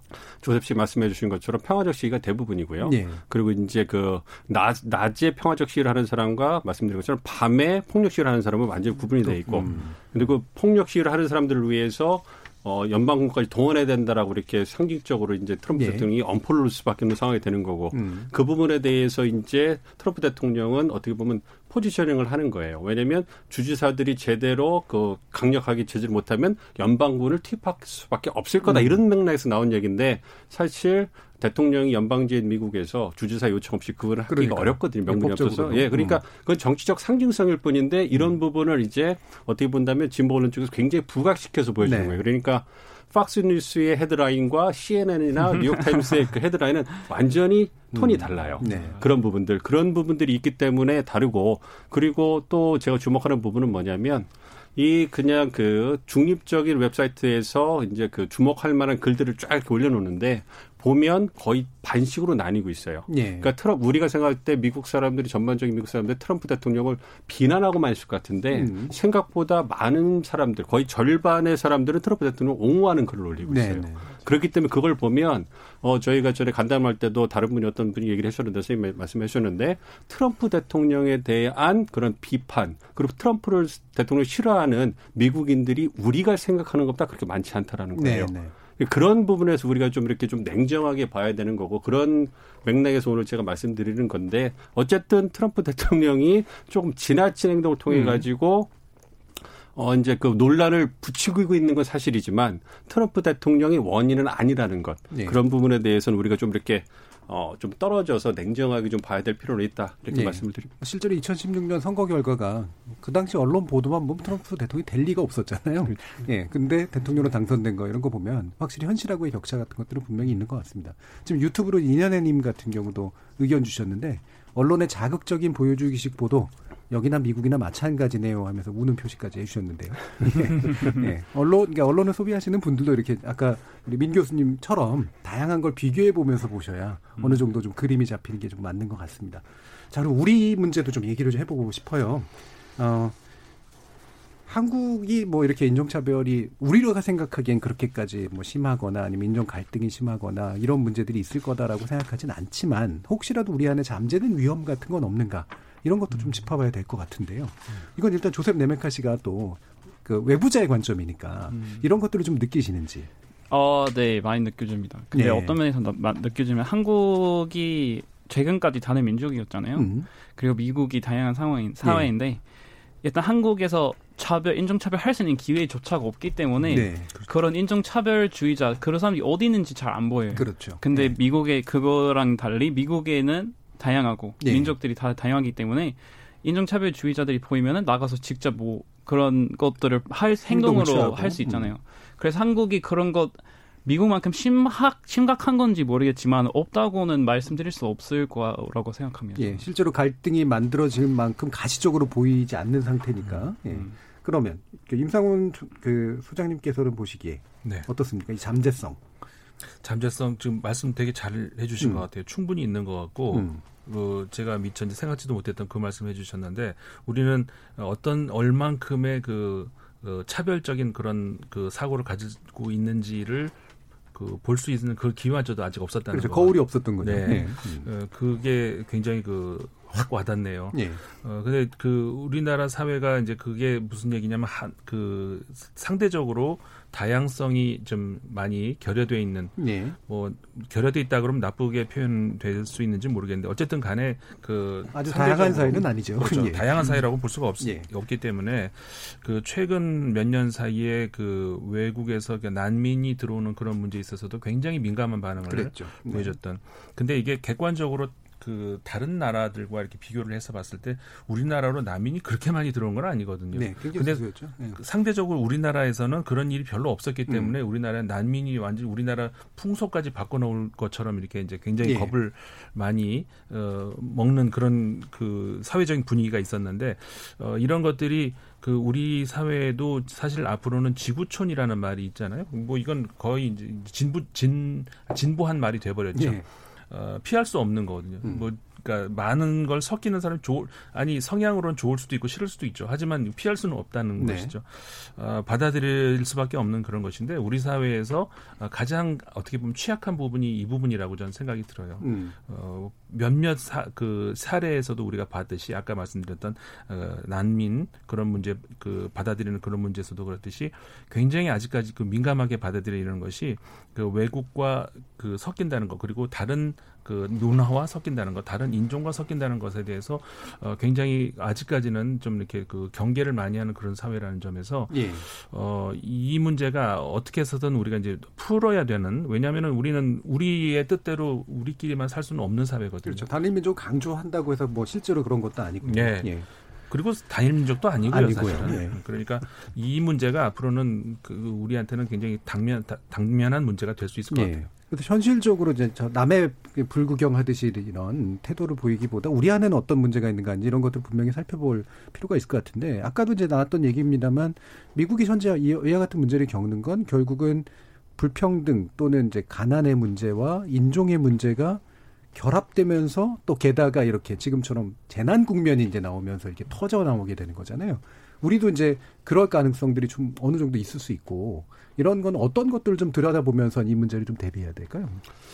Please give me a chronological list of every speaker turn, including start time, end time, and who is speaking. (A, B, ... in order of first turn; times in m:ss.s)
0:00.4-1:38.7 A
0:02.8-0:03.2 B
0:09.2-0:10.3 B
0:15.7-0:16.1 B
0:17.9-0:18.3 B
0:28.6-0:29.0 B
0:34.3-0:36.2 B
0:41.8-0:42.2 B
0:47.9-0:49.0 B
0:48.6-0:49.0 C
1:03.1-1:03.5 B
1:08.5-1:08.9 B
1:13.5-1:14.2 B
1:27.9-1:28.5 B
1:37.9-1:38.2 B
1:39.7-1:50.7 A
1:45.1-1:45.4 B
1:50.1-2:23.2 B
2:24.4-2:43.1 B
2:41.5-2:41.9 C
2:43.5-2:52.4 C
2:45.1-2:45.6 B
2:49.7-2:50.1 B
2:51.8-2:52.1 B
2:53.0-3:19.7 C
2:56.6-2:57.1 B
3:00.3-3:01.2 B
3:04.4-3:04.7 B
3:10.5-3:11.7 B
3:19.4-3:29.0 B
3:23.7-3:23.9 C
3:29.8-3:43.5 D
3:31.8-3:32.0 B
3:33.3-3:33.6 B
3:44.1-5:33.3 D
3:46.1-3:47.9 B
3:50.7-3:51.0 B
3:59.6-4:00.0 B
4:04.9-4:06.7 B
4:07.6-4:07.9 B
4:15.4-4:16.4 B
4:23.5-4:24.8 B
4:27.3-4:27.6 B
4:31.8-4:32.1 B
4:46.1-4:46.4 B
4:54.2-4:54.5 B
5:02.0-5:02.3 B
5:24.9-5:25.2 B
5:33.0-5:36.4 B
5:35.8-5:44.7 D
5:38.0-5:39.0 B
5:44.3-6:01.8 B
6:02.3-6:15.2 B